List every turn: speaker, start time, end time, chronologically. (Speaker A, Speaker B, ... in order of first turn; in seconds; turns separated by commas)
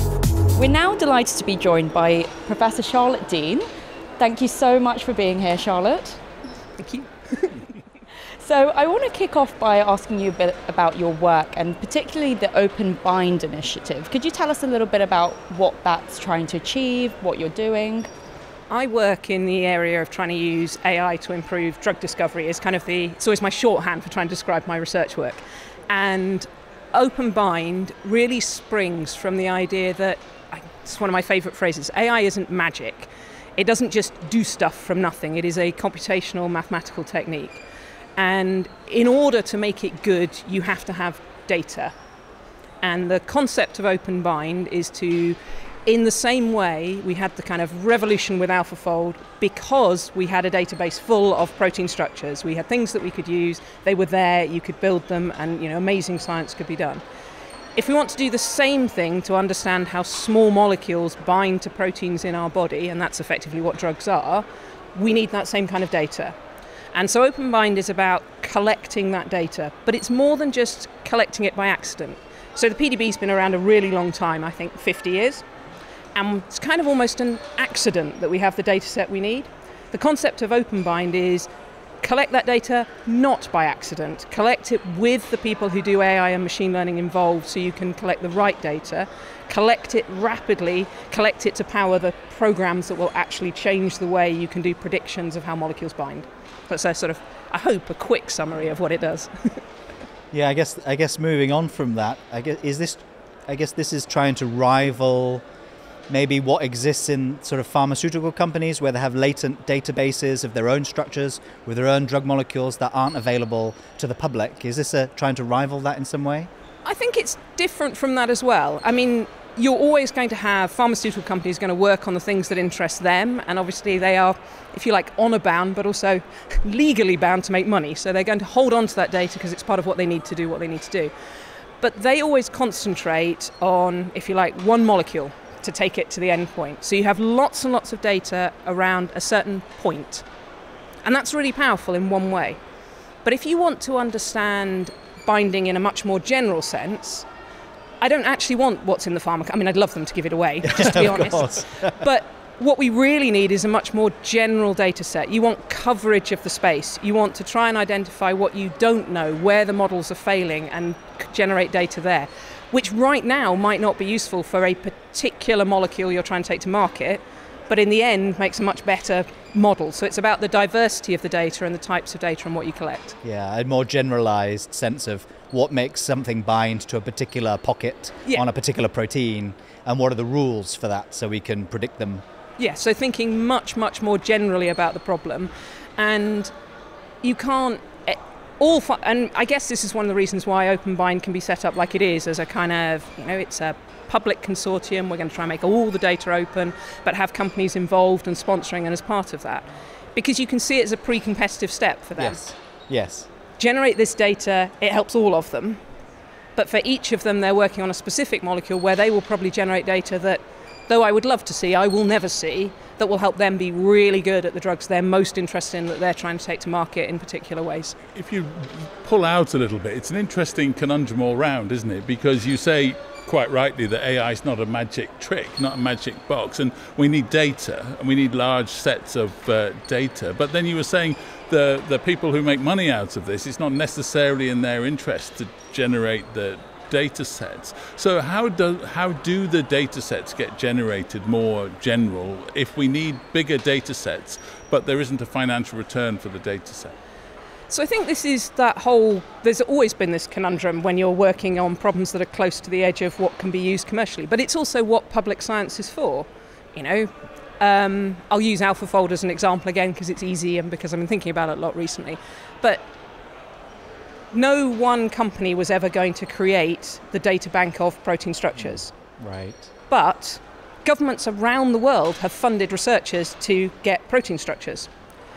Speaker A: 0.6-3.7, Speaker A: 4.2-6.2, Speaker B: 6.8-7.6, Speaker A: 8.4-18.1, Speaker B: 18.7-37.6, Speaker B: 38.2-41.9, Speaker B: 42.8-57.0, Speaker B: 57.8-66.3, Speaker B: 66.9-75.4, Speaker B: 76.1-81.5, Speaker B: 82.0-99.6, Speaker C: 100.3-105.4, Speaker C: 106.1-116.5, Speaker B: 116.8-131.1, Speaker B: 131.8-140.2, Speaker B: 141.0-142.6, Speaker B: 143.2-147.2, Speaker B: 148.0-173.2, Speaker C: 150.6-152.0, Speaker C: 173.2-182.2, Speaker B: 182.6-186.5, Speaker B: 187.2-202.4, Speaker C: 202.2-203.3, Speaker B: 203.6-205.8, Speaker B: 206.6-217.9, Speaker D: 218.1-246.9, Speaker B: 247.7-262.9, Speaker B: 264.3-268.9, Speaker C: 269.2-269.7, Speaker B: 269.9-274.9